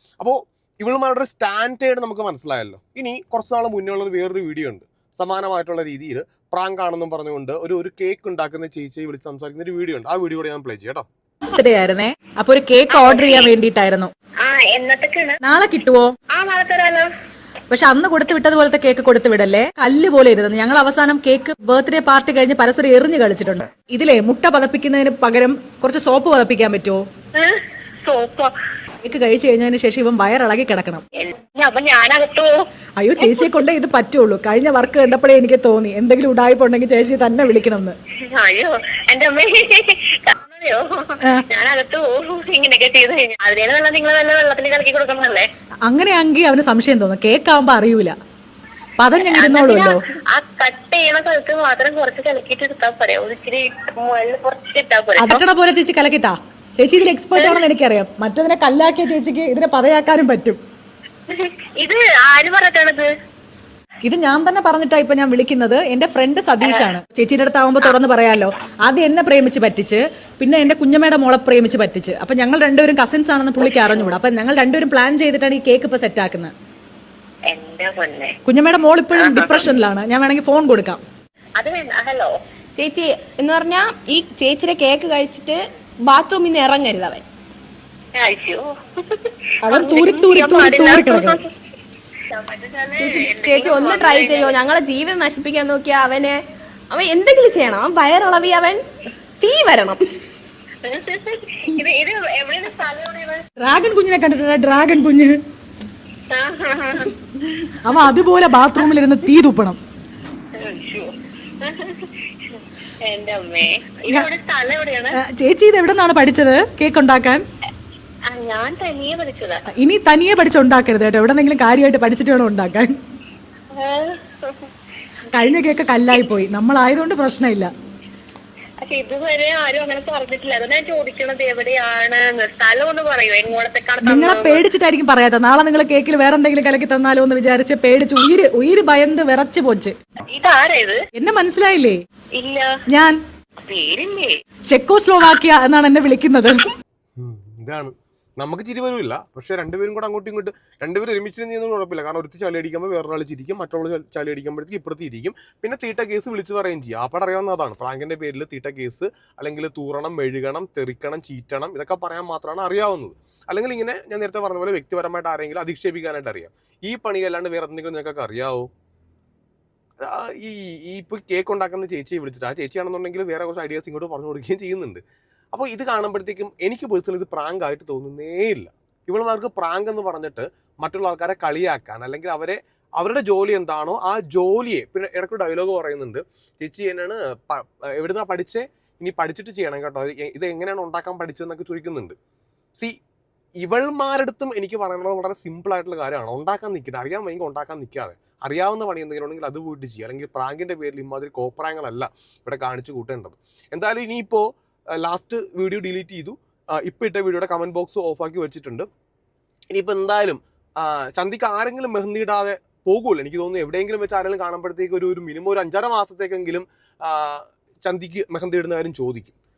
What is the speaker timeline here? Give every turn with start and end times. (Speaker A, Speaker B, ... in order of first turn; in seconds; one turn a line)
Speaker A: 0.2-11.1
Speaker B: 11.5-14.1
Speaker C: 12.9-13.5
Speaker C: 14.4-15.4
Speaker B: 15.4-16.1
Speaker C: 16.3-17.1
Speaker B: 17.7-27.0
Speaker C: 27.4-28.5
Speaker B: 29.0-31.0
Speaker C: 31.2-32.6
Speaker B: 33.0-38.0
Speaker C: 38.2-45.5
Speaker B: 45.9-48.1
Speaker B: 49.0-50.0
Speaker C: 49.2-55.4
Speaker B: 55.2-60.6
Speaker C: 57.4-57.6
Speaker C: 61.3-63.1
Speaker B: 64.1-76.5
Speaker C: 77.5-78.3
Speaker B: 78.5-81.0
Speaker C: 79.1-79.7
Speaker C: 81.6-82.3
Speaker D: 82.8-87.2
Speaker C: 88.2-91.5
Speaker B: 89.6-91.4
Speaker C: 92.3-94.6
Speaker D: 93.0-96.4
Speaker D: 96.9-98.8
Speaker D: 99.4-100.0
Speaker C: 100.8-103.4
Speaker B: 103.6-105.4
Speaker C: 106.3-107.1
Speaker B: 107.8-109.8
Speaker C: 110.5-115.2
Speaker B: 115.1-117.4
Speaker C: 118.3-119.7
Speaker B: 119.8-122.9
Speaker C: 123.7-124.7
Speaker B: 125.3-127.7
Speaker C: 128.8-134.6
Speaker B: 134.0-139.9
Speaker C: 140.3-141.0
Speaker B: 141.2-142.0
Speaker C: 142.4-142.7
Speaker C: 143.6-144.3
Speaker B: 144.7-146.6
Speaker A: 147.2-168.7
Speaker A: 170.0-175.0
Speaker A: 175.5-192.2
Speaker A: 193.6-208.9
Speaker A: 209.7-219.3